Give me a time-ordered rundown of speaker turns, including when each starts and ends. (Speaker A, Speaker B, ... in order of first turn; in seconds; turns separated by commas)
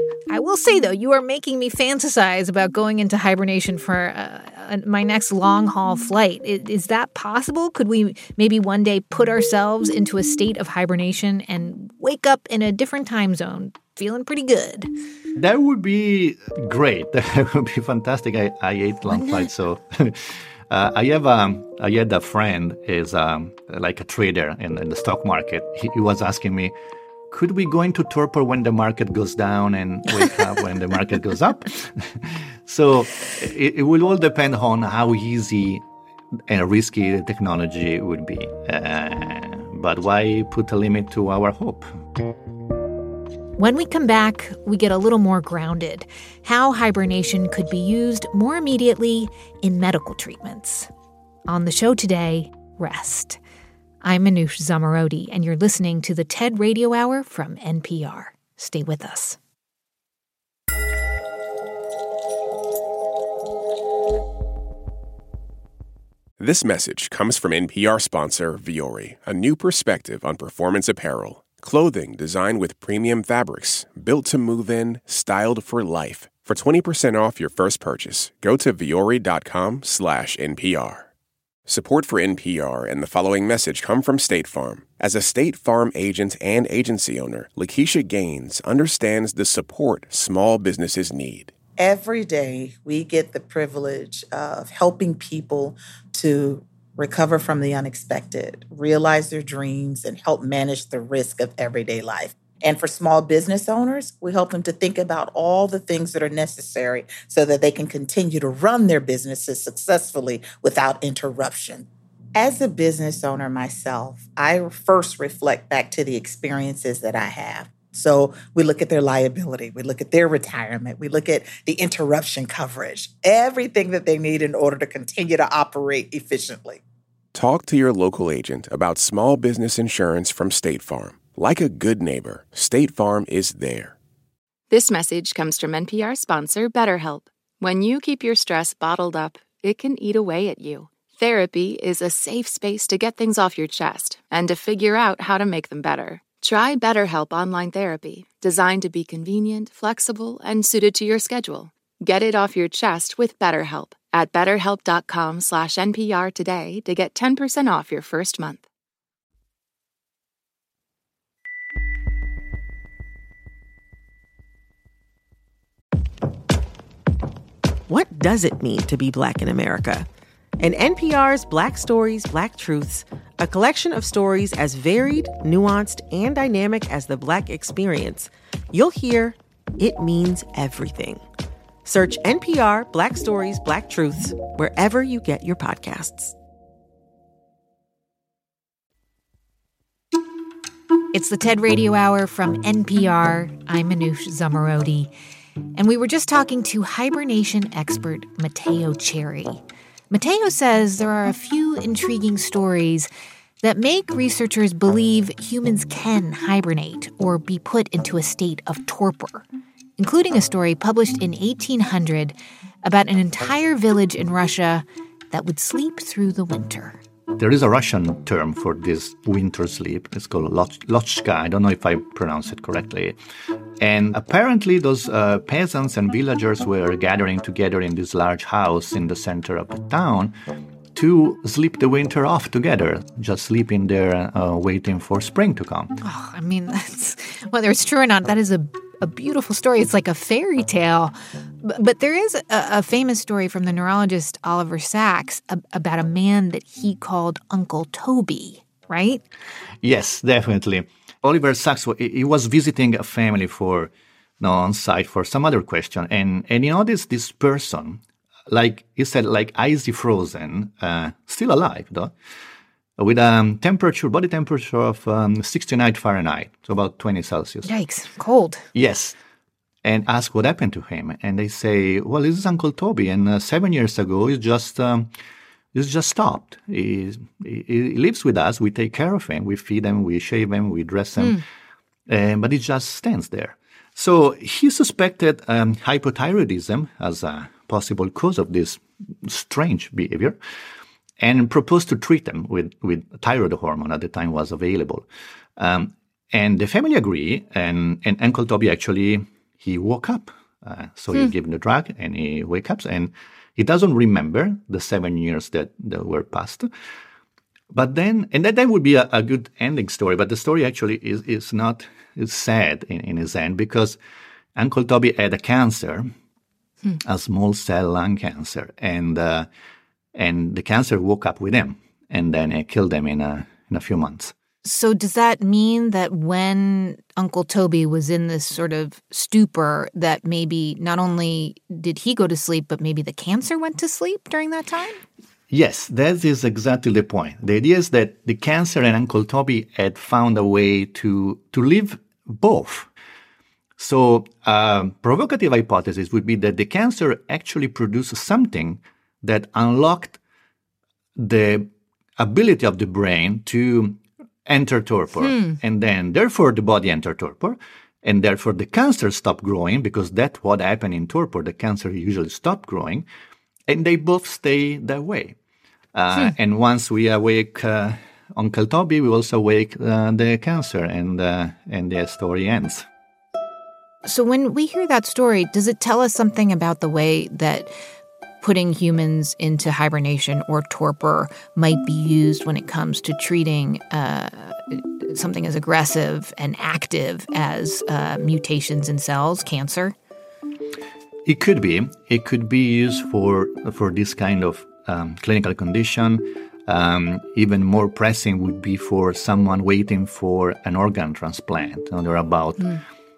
Speaker A: 0.3-14.9, Speaker B: 15.4-26.7, Speaker A: 19.1-19.5, Speaker B: 27.3-35.8, Speaker B: 36.5-41.9, Speaker A: 43.6-50.9, Speaker A: 51.5-53.4, Speaker A: 54.0-59.4, Speaker C: 66.4-81.1, Speaker C: 81.7-91.5, Speaker D: 91.8-126.8, Speaker C: 127.3-133.9, Speaker E: 134.7-158.6, Speaker F: 167.9-170.1, Speaker F: 170.6-181.2, Speaker F: 181.8-186.3, Speaker A: 191.1-195.1, Speaker A: 195.8-203.1, Speaker A: 203.6-209.5, Speaker A: 210.0-217.0, Speaker B: 217.4-223.2, Speaker B: 223.8-230.3, Speaker B: 230.9-236.0, Speaker A: 236.0-249.2, Speaker B: 249.8-262.1, Speaker B: 263.0-267.7, Speaker A: 267.6-268.6, Speaker B: 268.7-269.2, Speaker B: 269.8-275.1, Speaker B: 275.7-281.4, Speaker B: 282.1-290.4, Speaker B: 291.2-295.1, Speaker B: 295.6-306.7, Speaker B: 307.7-314.0, Speaker B: 314.6-316.1, Speaker B: 317.0-319.5, Speaker B: 320.1-324.3, Speaker A: 324.6-335.0, Speaker B: 335.5-342.9, Speaker B: 343.8-350.2, Speaker B: 351.2-363.1, Speaker A: 355.2-355.6, Speaker B: 363.7-365.4, Speaker B: 365.9-372.9, Speaker A: 374.1-377.8, Speaker A: 378.4-389.9, Speaker B: 391.2-402.8